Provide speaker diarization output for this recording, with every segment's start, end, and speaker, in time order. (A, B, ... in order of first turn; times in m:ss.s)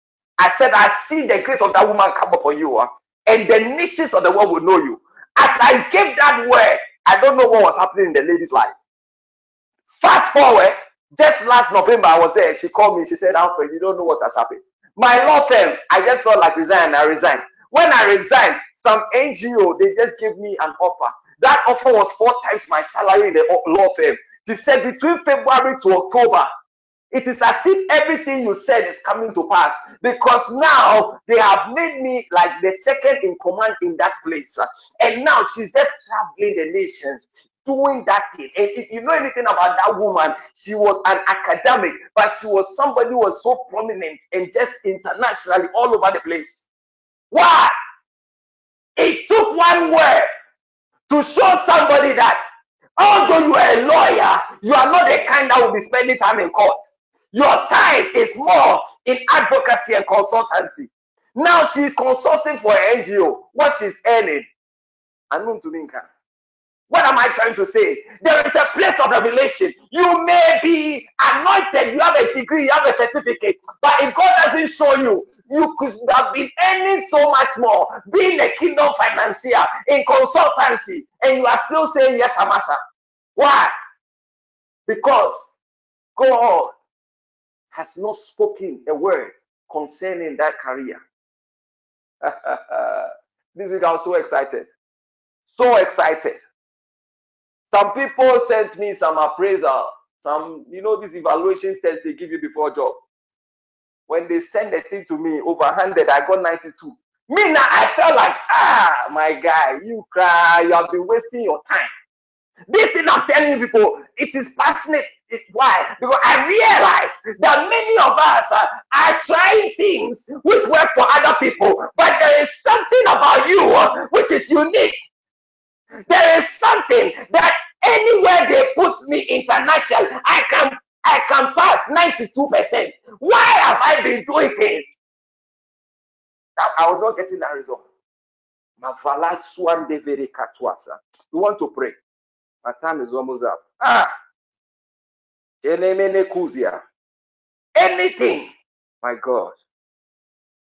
0:00.4-0:08.7 A
0:10.0-0:26.5 A
0:27.1-0:46.7 A
0:47.3-0:47.7 A
0:49.0-0:50.3 A
0:51.1-0:52.4 A
0:53.0-1:04.5 A
1:05.3-1:06.1 A
1:06.9-1:22.8 A
1:23.4-1:23.7 A
1:24.9-1:25.5 A
1:26.2-1:26.7 A
1:27.7-1:31.0 A
1:32.2-1:34.7 A
1:35.5-1:36.4 A
1:37.7-1:43.0 A
1:44.1-1:51.9 A
1:52.7-2:05.0 A
2:06.1-2:15.0 A
2:16.6-2:17.8 A
2:18.8-2:22.0 A
2:22.6-2:24.1 A
2:25.6-2:26.8 A
2:27.8-2:28.5 A
2:29.0-2:29.6 A